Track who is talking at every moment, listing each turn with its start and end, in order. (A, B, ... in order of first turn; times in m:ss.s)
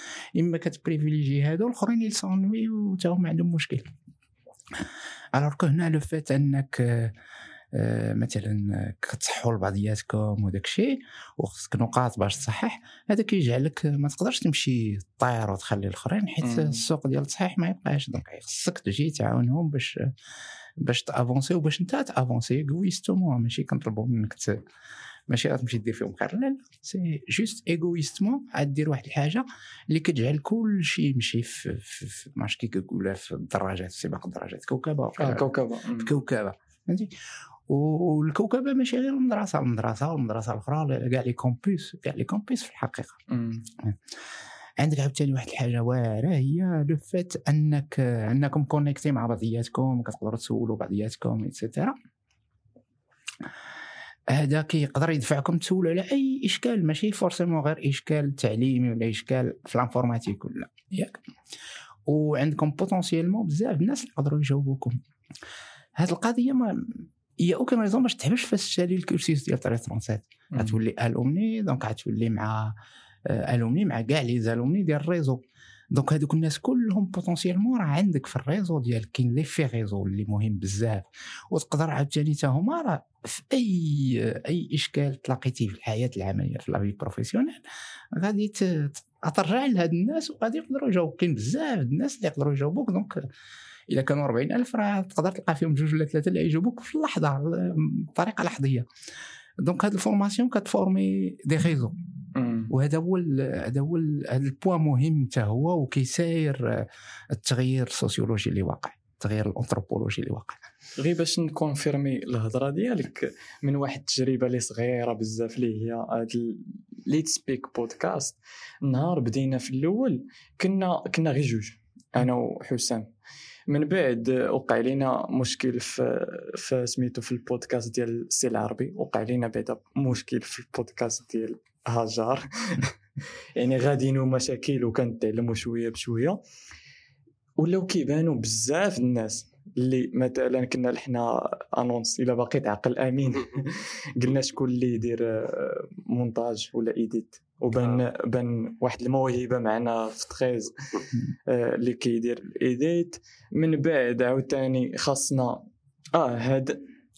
0:00.4-0:03.9 A
0:04.7-0:07.2 A
0:07.7-0:20.1 A
0:16.4-0:16.8 B
0:20.8-0:24.6 A
0:25.3-0:37.1 A
0:35.2-0:36.2 B
0:37.7-0:43.2 A
0:43.3-0:43.6 B
0:44.8-0:52.0 A
0:54.3-1:01.2 A
1:02.0-1:05.0 A
1:06.0-1:15.4 A
1:10.5-1:10.8 B
1:15.9-1:33.3 A
1:33.9-1:38.9 A
1:39.6-1:42.0 A
1:42.4-1:42.7 B
1:42.7-1:50.6 A
1:51.0-2:03.1 B
2:03.7-2:13.0 B
2:13.6-2:16.4 B
2:17.6-2:36.8 B